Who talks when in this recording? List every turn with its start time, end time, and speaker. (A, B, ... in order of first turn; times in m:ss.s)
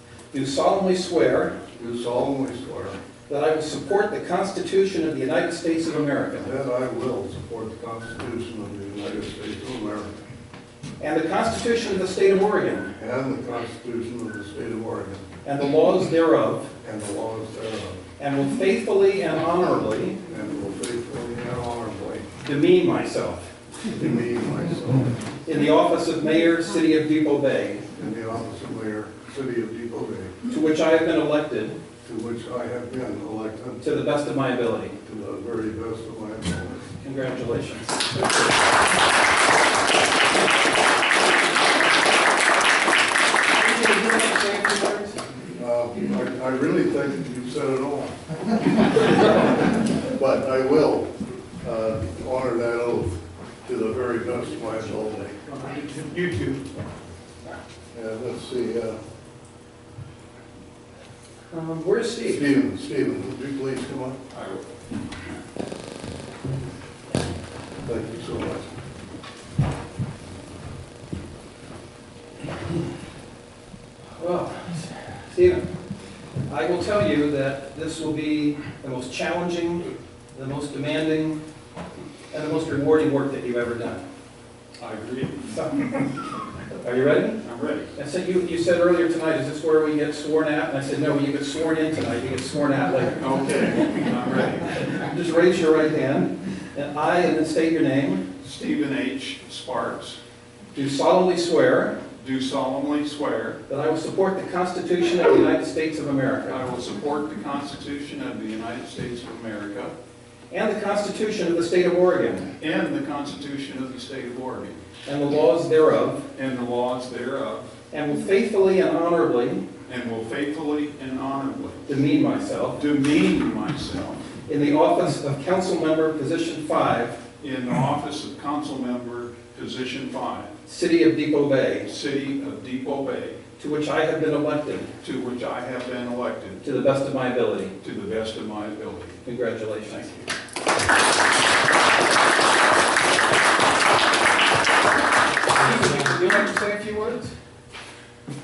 0:00.3-0:01.6 A
0:01.7-0:03.0 B
0:03.3-0:06.5 A
0:06.4-0:10.1 B
0:11.0-0:12.9 A
0:13.0-0:15.2 B
0:15.4-0:16.7 A
0:16.8-0:18.0 B
0:18.2-0:20.2 A
0:20.2-0:22.3 B
0:22.4-0:23.5 A
0:23.9-0:25.2 B
0:25.5-0:27.9 A
0:27.9-0:30.4 B
0:30.5-0:31.8 A
0:32.0-0:33.8 B
0:33.8-0:35.0 A
0:35.0-0:36.9 B
0:37.0-0:38.7 A
0:43.5-0:45.2 A
0:45.6-0:48.9 B
0:49.9-0:55.4 B
0:55.7-0:56.6 C
0:57.9-0:59.0 B
1:01.5-1:02.5 A
1:02.2-1:04.2 B
1:04.3-1:04.7 C
1:07.8-1:08.7 B
1:14.2-1:15.6 A
1:16.5-1:21.4 A
1:22.3-1:24.0 A
1:24.8-1:25.5 C
1:25.5-1:25.9 A
1:26.8-1:27.4 A
1:27.4-1:27.9 C
1:28.0-1:33.2 A
1:33.2-1:34.7 C
1:34.8-1:38.3 A
1:38.4-1:40.2 C
1:40.8-1:42.0 A
1:42.2-1:43.6 C
1:43.7-1:46.6 A
1:46.5-1:49.9 C
1:50.5-1:52.5 A
1:52.6-1:54.8 C
1:55.0-1:56.3 A
1:56.3-1:57.7 C
1:57.9-1:59.6 A
1:59.9-2:01.8 C
2:01.9-2:02.8 A
2:02.8-2:04.2 C
2:04.5-2:07.2 A
2:07.4-2:10.5 C
2:10.7-2:11.9 A
2:11.8-2:13.4 C
2:13.6-2:14.9 A
2:15.0-2:16.6 C
2:16.6-2:17.8 A
2:17.8-2:19.2 C
2:19.2-2:20.3 A
2:25.6-2:27.4 A